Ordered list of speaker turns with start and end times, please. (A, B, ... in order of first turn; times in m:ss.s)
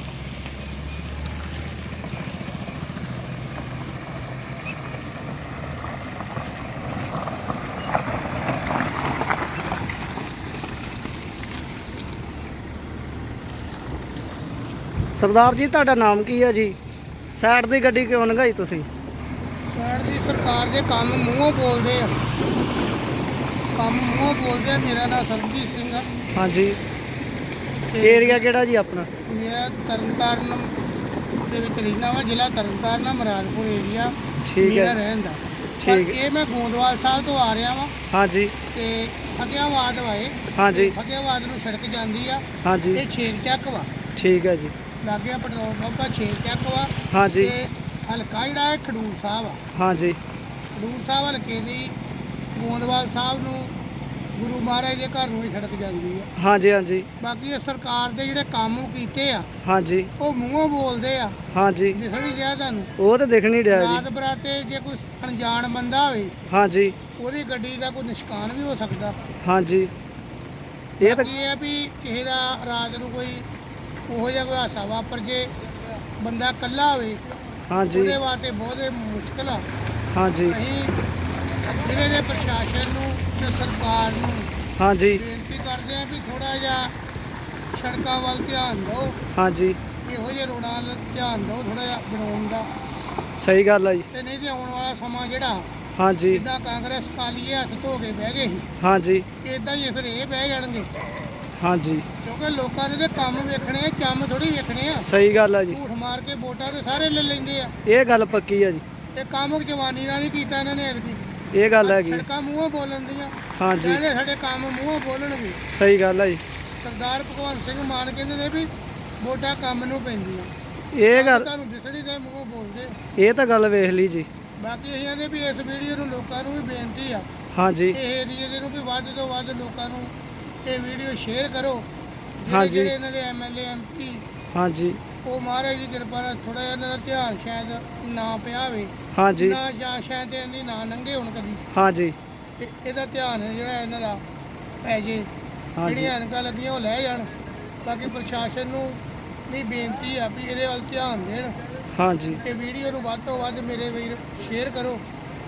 0:15.1-0:16.8 A
0:17.3-0:18.9 A
0:19.7-0:22.2 B
0:23.8-0:26.1 B
0:26.3-0:26.8 A
0:27.9-0:28.4 B
0:28.0-0:29.1 A
0:29.3-0:30.7 B
0:31.4-0:37.9 B
0:34.5-0:35.0 A
0:35.8-0:36.2 A
0:38.1-0:38.5 A
0:38.7-0:43.9 B
0:40.6-0:41.0 A
0:42.6-0:43.0 A
0:44.2-0:44.8 A
0:45.0-0:49.6 B
0:47.1-0:47.5 A
0:49.7-0:50.2 A
0:50.8-0:52.0 B
0:52.6-0:53.8 B
0:54.4-0:56.3 B
0:56.4-0:57.1 A
0:57.2-0:59.5 B
0:59.6-1:00.1 A
1:00.2-1:01.4 B
1:01.5-1:02.0 A
1:01.9-1:02.9 B
1:03.0-1:04.0 A
1:03.7-1:06.3 B
1:06.5-1:07.0 A
1:07.2-1:09.2 B
1:09.4-1:09.9 A
1:11.0-1:11.3 A
1:11.0-1:13.5 B
1:14.1-1:15.5 B
1:16.2-1:17.2 B
1:17.7-1:18.2 A
1:17.9-1:19.6 B
1:20.1-1:20.6 A
1:20.5-1:21.0 B
1:21.7-1:24.5 B
1:24.8-1:25.2 A
1:25.1-1:26.9 B
1:27.7-1:29.2 B
1:29.3-1:29.8 A
1:30.0-1:32.7 B
1:33.1-1:34.1 A
1:34.1-1:35.7 B
1:36.0-1:36.4 A
1:36.3-1:38.7 B
1:38.8-1:39.3 A
1:39.4-1:40.9 B
1:41.6-1:42.0 A
1:42.2-1:45.1 B
1:45.0-1:45.8 A
1:45.7-1:47.7 B
1:47.8-1:48.8 A
1:49.2-1:51.2 B
1:51.5-1:52.2 A
1:51.8-1:55.6 B
1:53.6-1:54.0 A
1:55.7-1:56.4 A
1:56.8-1:58.7 B
1:59.2-2:00.5 B
2:01.0-2:01.5 A
2:01.1-2:03.0 B
2:03.2-2:04.3 A
2:04.6-2:07.3 B
2:07.5-2:08.0 A
2:07.9-2:10.1 B
2:10.6-2:11.9 B
2:12.4-2:14.2 B
2:12.5-2:12.9 A
2:14.5-2:15.0 A
2:15.2-2:21.6 B
2:19.1-2:19.6 A
2:21.7-2:22.2 A
2:22.6-2:24.2 B
2:24.8-2:25.3 B
2:25.8-2:26.1 A
2:25.8-2:27.3 B
2:27.8-2:31.6 B
2:31.9-2:32.4 A
2:32.4-2:35.0 B